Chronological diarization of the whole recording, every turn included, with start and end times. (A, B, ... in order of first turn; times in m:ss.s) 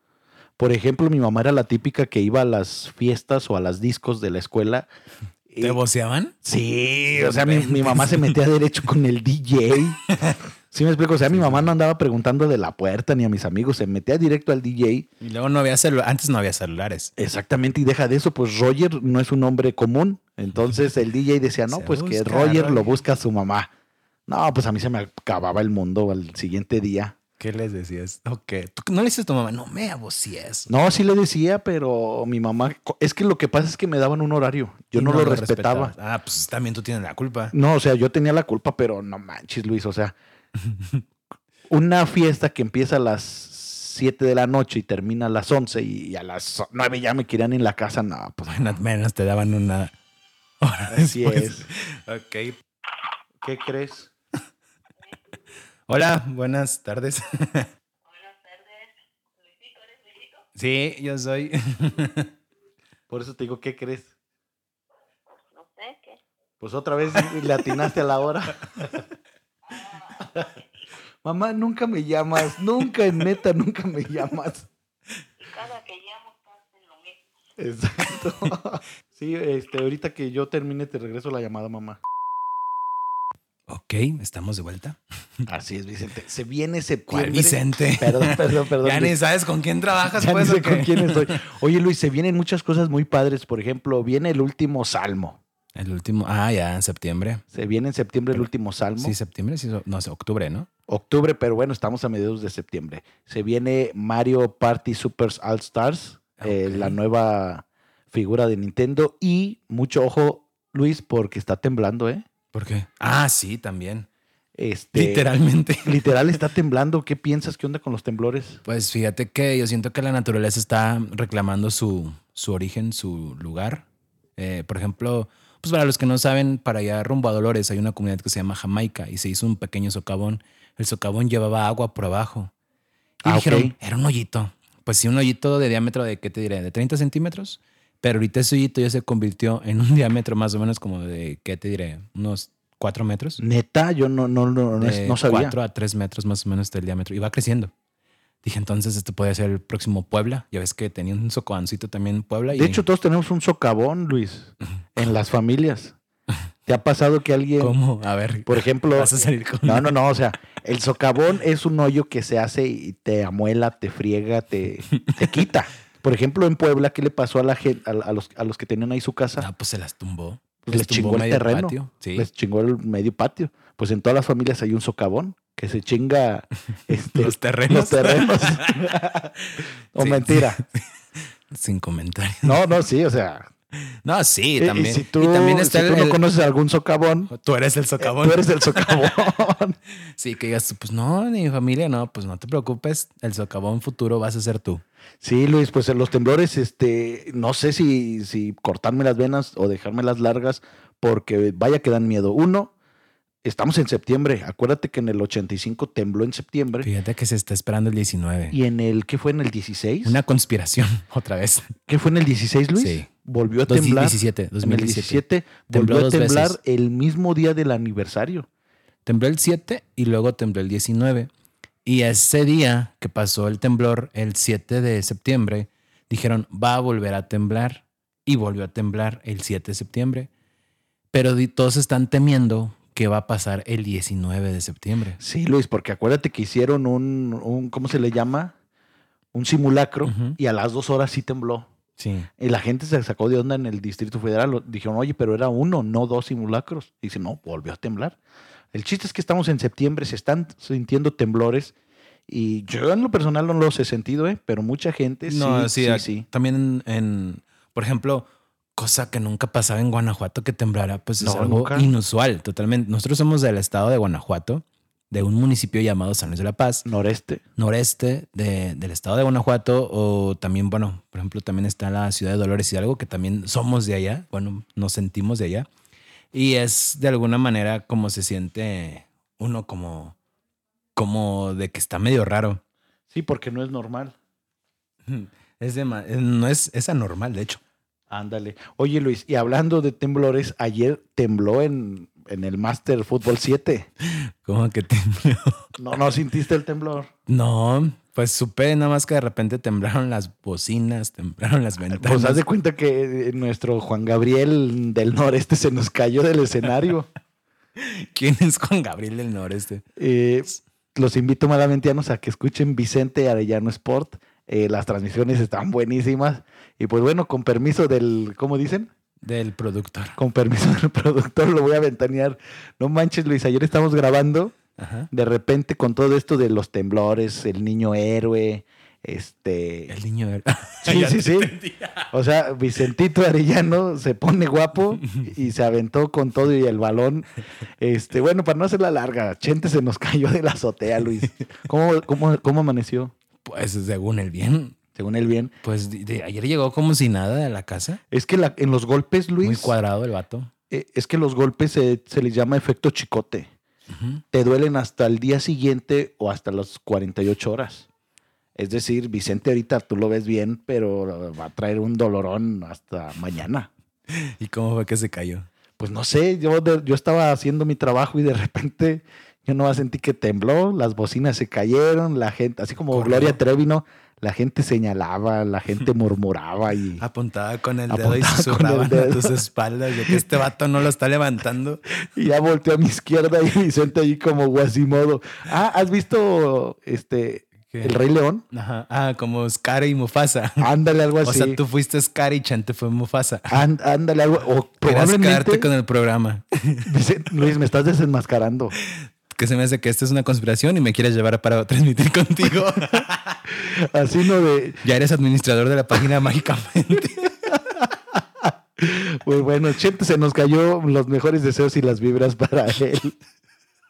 0:00.6-0:04.9 A
0:05.5-0:05.8 A
0:05.6-0:06.4 B
0:06.4-0:10.1 A
0:07.1-0:08.4 B
0:10.7-0:15.1 A
0:11.3-0:11.7 B
0:15.2-0:17.1 B
0:17.2-0:23.7 A
0:21.7-0:23.0 B
0:24.3-0:27.2 A
0:27.4-0:30.7 B
0:30.7-0:35.9 A
0:35.0-0:37.5 B
0:37.5-0:40.2 A
0:40.6-0:41.0 B
0:41.7-0:48.8 A
0:48.5-0:49.9 B
0:50.6-0:52.6 B
0:50.9-0:51.7 A
0:53.4-0:54.1 A
0:55.9-0:57.7 B
0:58.0-1:00.5 C
1:00.6-1:02.3 B
1:03.1-1:04.1 A
1:05.5-1:06.2 C
1:06.6-1:09.0 A
1:09.7-1:10.5 C
1:11.2-1:14.7 A
1:15.4-1:17.4 C
1:17.6-1:22.0 A
1:23.7-1:25.4 B
1:25.5-1:29.2 A
1:27.1-1:31.4 B
1:30.1-1:35.4 A
1:35.8-1:37.4 B
1:37.5-1:39.2 A
1:39.0-1:40.7 B
1:40.9-1:52.3 A
1:46.4-1:47.0 B
1:52.5-1:54.1 B
1:54.6-1:55.3 A
1:55.0-1:56.4 B
1:55.8-1:58.6 A
1:58.6-2:03.8 B
2:04.4-2:12.5 B
2:13.2-2:23.4 B
2:13.2-2:13.7 A
2:23.4-2:25.6 A
2:24.8-2:27.7 B
2:28.4-2:32.8 B
2:32.5-2:36.0 A
2:36.7-2:37.8 A
2:37.6-2:39.9 B
2:38.5-2:49.5 A
2:45.1-2:45.4 B
2:49.4-2:52.3 B
2:50.6-2:59.3 A
2:57.1-3:00.8 B
2:59.9-3:00.6 A
3:01.5-3:02.6 B
3:02.4-3:03.5 A
3:04.0-3:06.2 B
3:04.6-3:07.3 A
3:07.3-3:09.1 B
3:08.0-3:09.8 A
3:10.2-3:14.8 B
3:15.2-3:22.7 A
3:23.4-3:26.9 A
3:26.8-3:28.6 B
3:28.5-3:30.2 A
3:30.0-3:31.7 B
3:31.9-3:38.5 A
3:32.8-3:33.1 B
3:33.7-3:36.6 B
3:39.1-3:41.3 B
3:41.8-3:50.3 B
3:51.1-3:55.2 B
3:55.2-3:58.6 A
3:59.3-4:01.7 A
4:00.1-4:00.4 B
4:02.0-4:02.3 B
4:02.4-4:08.2 A
4:08.7-4:11.7 A
4:12.3-4:16.3 A
4:15.3-4:26.8 B
4:21.2-4:21.9 A
4:26.8-4:27.4 A
4:27.6-4:35.7 B
4:36.3-4:40.2 B
4:41.0-4:42.6 B
4:43.1-4:44.2 A
4:45.1-4:47.6 B
4:48.1-4:53.9 A
4:54.0-4:55.6 B
4:55.8-4:57.1 A
4:57.3-5:02.4 B
5:01.9-5:07.1 A
5:07.8-5:09.8 B
5:10.0-5:18.9 A
5:19.2-5:20.2 B
5:20.2-5:24.6 A
5:24.8-5:25.1 B
5:25.1-5:30.0 A
5:29.9-5:32.0 B
5:30.8-5:31.6 A
5:32.1-5:37.3 A
5:37.8-5:43.1 A
5:43.4-5:44.8 B
5:44.9-5:45.5 A
5:45.6-5:48.0 B
5:48.1-5:49.8 A
5:49.4-5:50.5 B
5:50.7-5:53.5 A
5:53.9-5:54.2 B
5:54.3-5:57.9 A
5:58.6-6:03.7 A
6:04.1-6:05.5 B
6:05.8-6:17.0 A
6:12.9-6:13.4 B
6:17.0-6:21.8 B
6:17.9-6:19.4 A
6:20.0-6:20.4 A
6:22.1-6:28.4 A
6:27.7-6:28.0 B
6:28.5-6:30.7 B
6:30.6-6:31.6 A
6:31.2-6:33.7 B
6:33.5-6:35.7 A
6:34.8-6:36.9 B
6:36.8-6:38.8 A
6:38.8-6:43.4 B
6:43.5-6:44.8 A
6:44.8-6:47.5 B
6:47.5-6:53.2 A